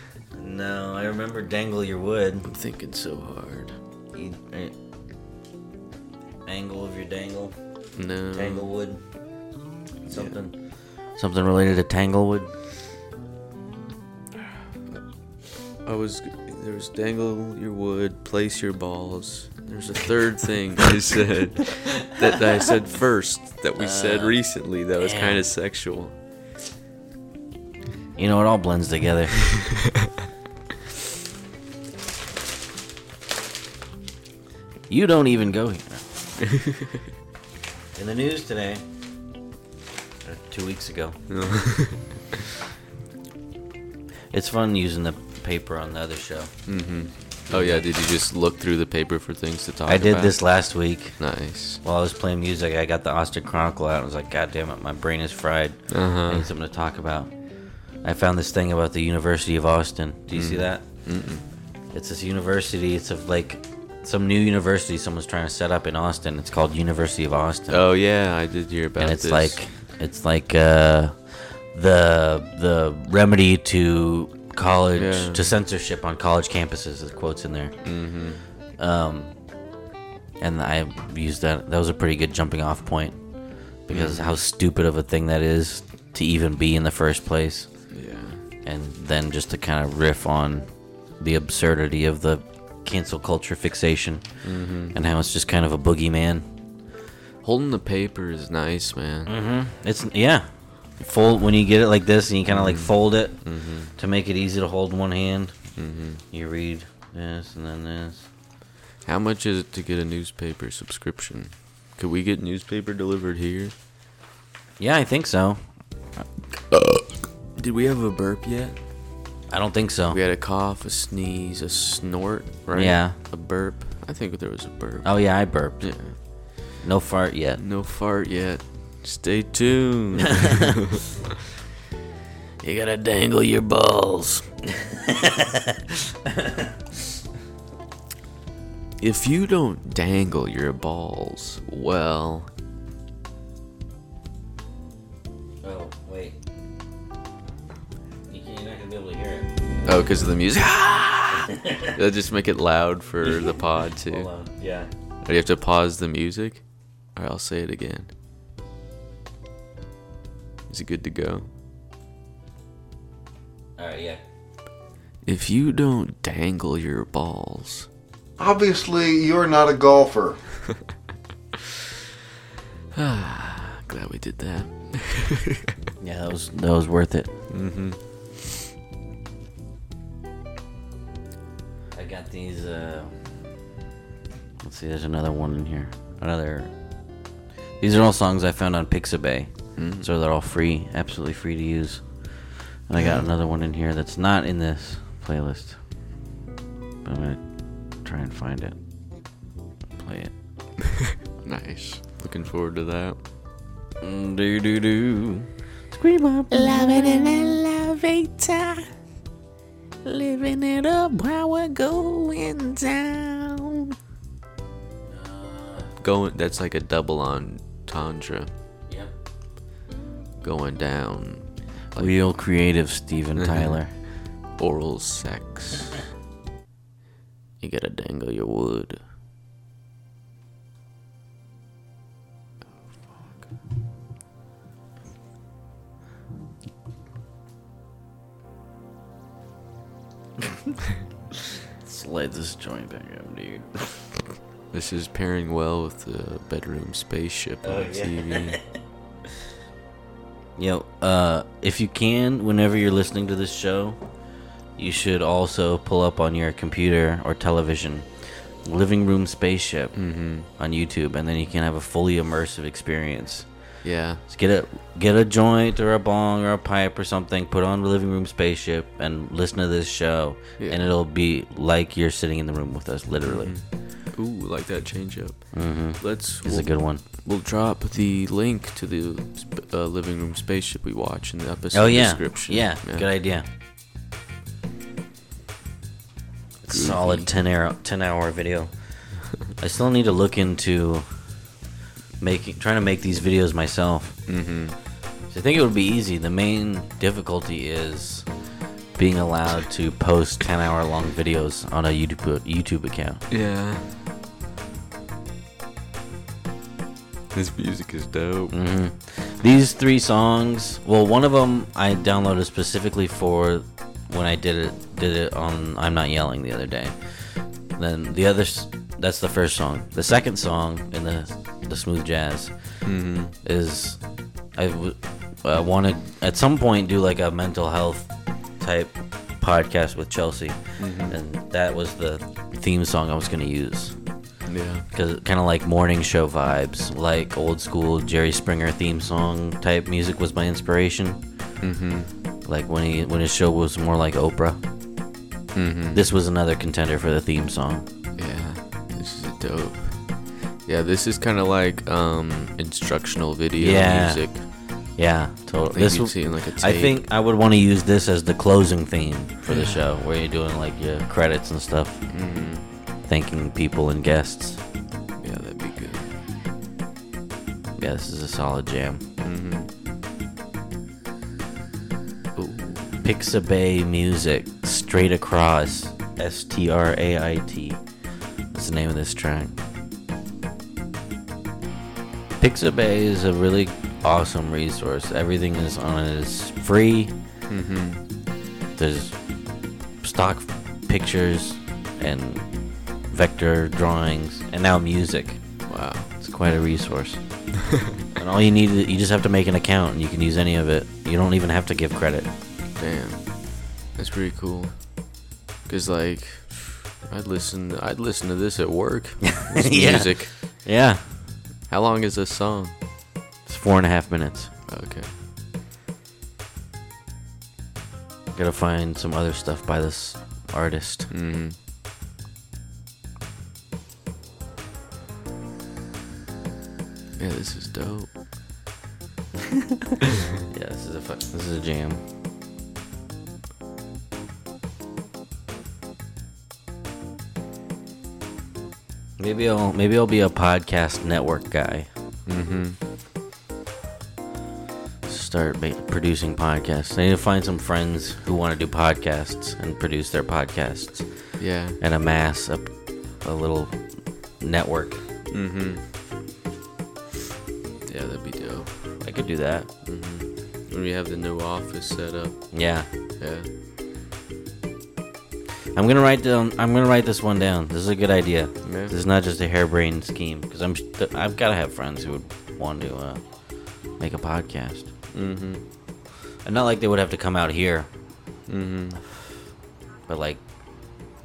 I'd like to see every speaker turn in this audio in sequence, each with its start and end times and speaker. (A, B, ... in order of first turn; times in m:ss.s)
0:00.3-0:02.5 A
0:02.4-0:03.8 B
0:04.1-0:04.7 A
0:06.5-0:07.6 A
0:08.0-0:08.7 B
0:08.3-0:09.0 A
0:10.1-0:12.5 A
0:10.1-0:10.4 B
0:15.8-0:26.1 B
0:23.8-0:24.4 A
0:25.0-0:25.4 A
0:28.2-0:29.4 A
0:34.9-0:36.2 A
0:36.6-0:36.8 B
0:37.9-0:38.8 A
0:40.2-0:41.2 A
0:41.3-0:42.4 B
0:44.3-0:46.5 A
0:46.7-0:50.4 B
0:47.5-0:47.9 A
0:49.9-1:00.9 A
0:51.2-0:51.8 B
0:55.9-0:56.5 B
1:00.3-1:01.4 B
1:01.9-1:07.9 A
1:07.7-1:09.6 B
1:09.0-1:17.8 A
1:15.0-1:15.5 B
1:17.8-1:18.4 B
1:18.8-1:19.4 A
1:20.4-1:28.0 A
1:23.9-1:24.4 B
1:27.9-1:28.4 B
1:28.6-1:36.5 A
1:34.4-1:35.0 B
1:37.4-1:39.3 B
1:39.3-1:45.7 A
1:42.5-1:43.9 B
1:45.8-1:46.2 B
1:46.3-1:48.3 A
1:49.0-1:53.7 B
1:54.8-1:56.2 A
1:56.7-1:58.8 B
1:59.5-2:00.2 A
2:00.1-2:06.2 B
2:02.7-2:03.2 A
2:05.0-2:07.6 A
2:07.6-2:11.0 B
2:12.6-2:14.5 B
2:16.4-2:16.7 A
2:19.0-2:22.5 B
2:25.6-2:26.4 A
2:28.3-2:29.5 A
2:29.8-2:34.3 B
2:31.5-2:32.0 A
2:33.2-2:34.9 A
2:35.2-2:38.1 B
2:40.7-2:41.5 B
2:43.8-2:44.2 A
2:45.2-2:47.9 B
2:48.4-2:50.4 C
2:52.9-2:55.7 B
2:56.0-2:57.3 A
2:57.5-2:58.0 B
3:01.9-3:03.2 A
3:04.6-3:06.7 A
3:07.8-3:15.8 A
3:09.8-3:10.1 B
3:13.0-3:13.2 B
3:17.0-3:18.8 A
3:20.0-3:20.4 A
3:21.4-3:23.2 B
3:24.0-3:27.0 A
3:26.5-3:28.9 D
3:30.0-3:33.9 D
3:35.1-3:35.9 A
3:36.0-3:38.5 B
3:40.4-3:42.2 B
3:42.0-3:44.0 A
3:43.4-3:46.1 B
3:47.6-3:49.0 B
4:01.8-4:04.2 A
4:04.7-4:08.6 B
4:07.6-4:08.6 A
4:10.6-4:14.2 A
4:14.7-4:23.7 A
4:20.0-4:20.5 B
4:23.8-4:24.2 B
4:24.3-4:33.6 A
4:30.6-4:30.8 B
4:33.2-4:43.1 B
4:35.5-4:37.0 A
4:41.7-4:43.5 A
4:46.6-4:51.4 A
4:46.7-4:47.3 B
4:52.2-4:54.3 A
4:54.3-4:54.8 B
4:55.3-5:03.2 A
5:03.3-5:03.9 B
5:07.3-5:08.6 B
5:08.5-5:34.4 A
5:22.8-5:23.3 B
5:30.8-5:31.2 B
5:34.5-5:34.9 B
5:34.9-5:41.3 A
5:41.6-5:42.1 B
5:42.4-5:44.6 A
5:45.5-5:46.0 B
5:45.9-5:47.9 A
5:48.2-5:54.5 B
5:53.6-6:02.2 A
5:55.5-5:57.0 B
5:59.5-5:59.9 B
6:02.1-6:02.7 B
6:03.0-6:04.6 A
6:05.2-6:06.1 B
6:07.8-6:09.0 A
6:09.2-6:09.7 B
6:12.4-6:13.1 B
6:13.0-6:17.9 A
6:18.5-6:19.6 A
6:22.4-6:27.2 A
6:27.5-6:28.0 B
6:28.8-6:37.6 A
6:35.7-6:36.1 B
6:38.2-6:42.3 A
6:42.8-6:50.3 B
6:49.4-6:51.2 A
6:51.7-6:52.8 B
6:53.5-6:54.5 A
6:54.7-6:55.1 B
6:58.3-7:01.1 A
7:01.1-7:01.6 B
7:07.2-7:08.1 B
7:10.5-7:12.0 A
7:19.2-7:21.9 A
7:22.3-7:22.8 B
7:25.1-7:35.0 A
7:31.4-7:31.8 B
7:35.3-7:35.8 B
7:37.8-7:39.1 B
7:39.0-7:39.7 A
7:39.8-7:43.5 B
7:42.5-7:42.9 A
7:45.7-7:54.9 A
7:48.6-7:48.9 B
7:55.1-7:55.6 B
7:56.4-7:57.9 A
7:58.5-7:59.0 B
8:00.1-8:00.4 A